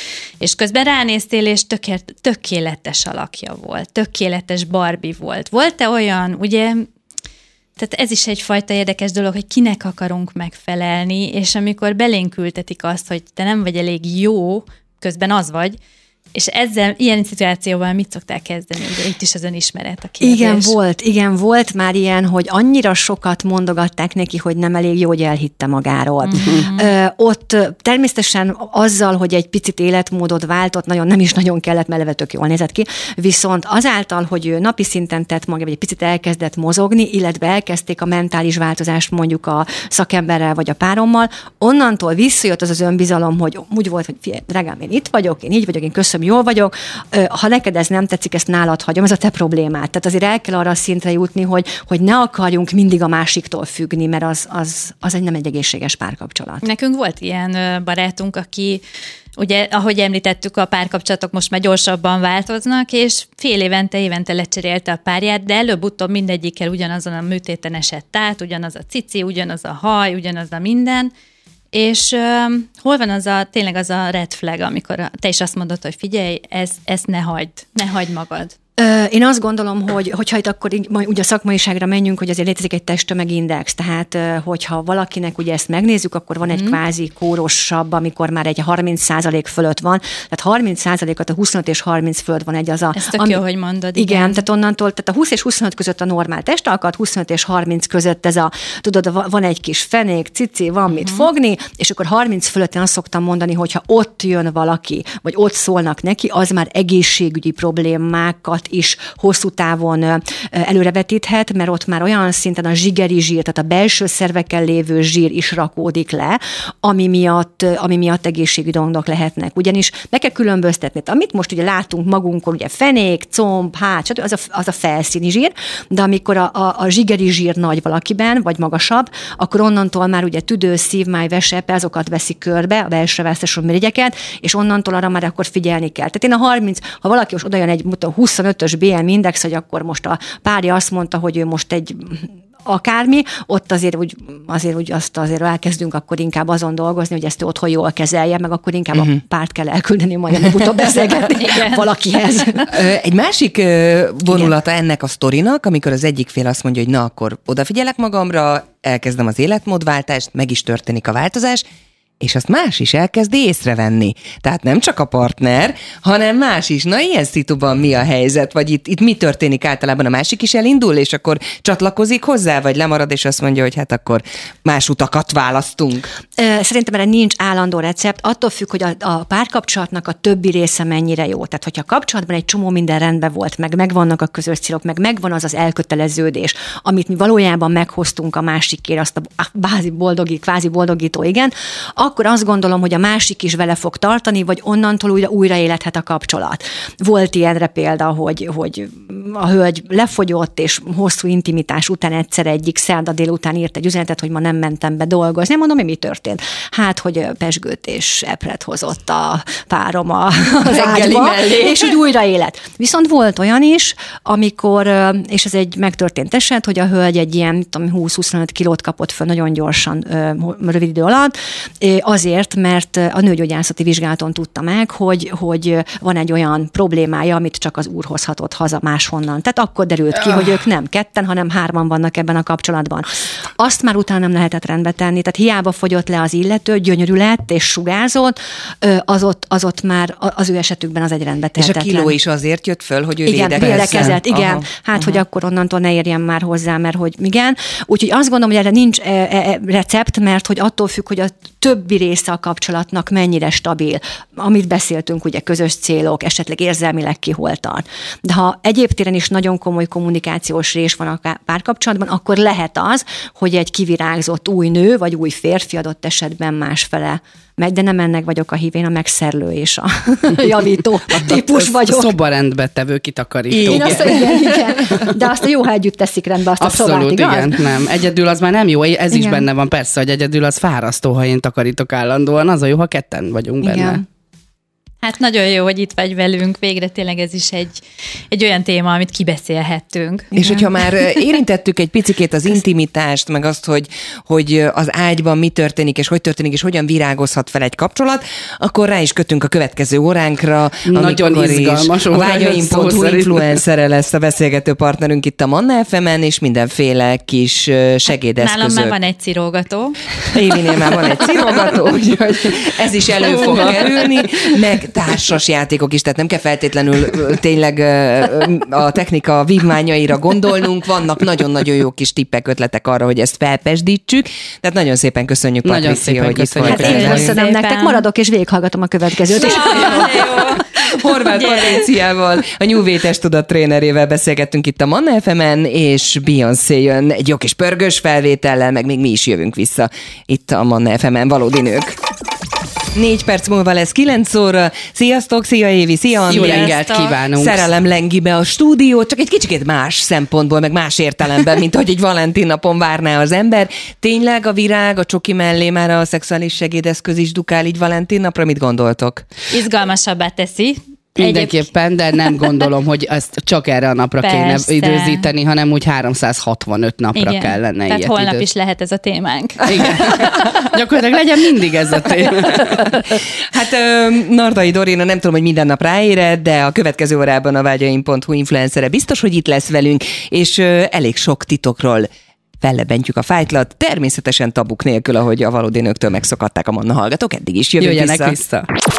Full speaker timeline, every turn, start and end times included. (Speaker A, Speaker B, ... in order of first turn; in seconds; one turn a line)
Speaker A: 0.4-6.9
Speaker A: 7.8-15.8
Speaker A: 16.3-20.8
Speaker B: 20.2-56.6
Speaker A: 26.2-26.9
Speaker A: 56.6-58.8
Speaker A: 59.4-71.1
Speaker A: 71.7-78.5
Speaker B: 78.8-93.4
Speaker A: 86.5-86.8
Speaker A: 92.9-94.4
Speaker B: 93.9-152.7
Speaker A: 100.9-101.3
Speaker A: 151.4-151.8
Speaker C: 152.7-161.6
Speaker C: 162.2-176.1
Speaker B: 176.4-242.1
Speaker C: 210.6-211.9
Speaker C: 241.6-244.6
Speaker B: 243.2-272.1
Speaker D: 271.2-275.1
Speaker C: 273.5-274.4
Speaker B: 273.6-277.6
Speaker D: 276.6-284.0
Speaker B: 279.1-279.4
Speaker B: 283.6-284.0
Speaker A: 285.0-290.3
Speaker B: 290.3-290.6
Speaker C: 290.4-308.9
Speaker D: 300.9-303.6
Speaker A: 308.4-310.3
Speaker C: 310.3-327.3
Speaker D: 313.5-313.8
Speaker D: 325.6-327.4
Speaker A: 326.6-328.0
Speaker B: 326.7-330.2
Speaker A: 329.3-330.6
Speaker C: 329.5-341.9
Speaker A: 331.2-331.9
Speaker C: 342.9-359.2
Speaker A: 346.3-347.1
Speaker D: 346.3-347.7
Speaker A: 359.5-361.6
Speaker D: 361.1-368.5
Speaker A: 364.2-365.2
Speaker A: 367.1-370.5
Speaker D: 369.6-372.9
Speaker C: 373.5-382.1
Speaker C: 382.6-388.4
Speaker D: 387.8-388.7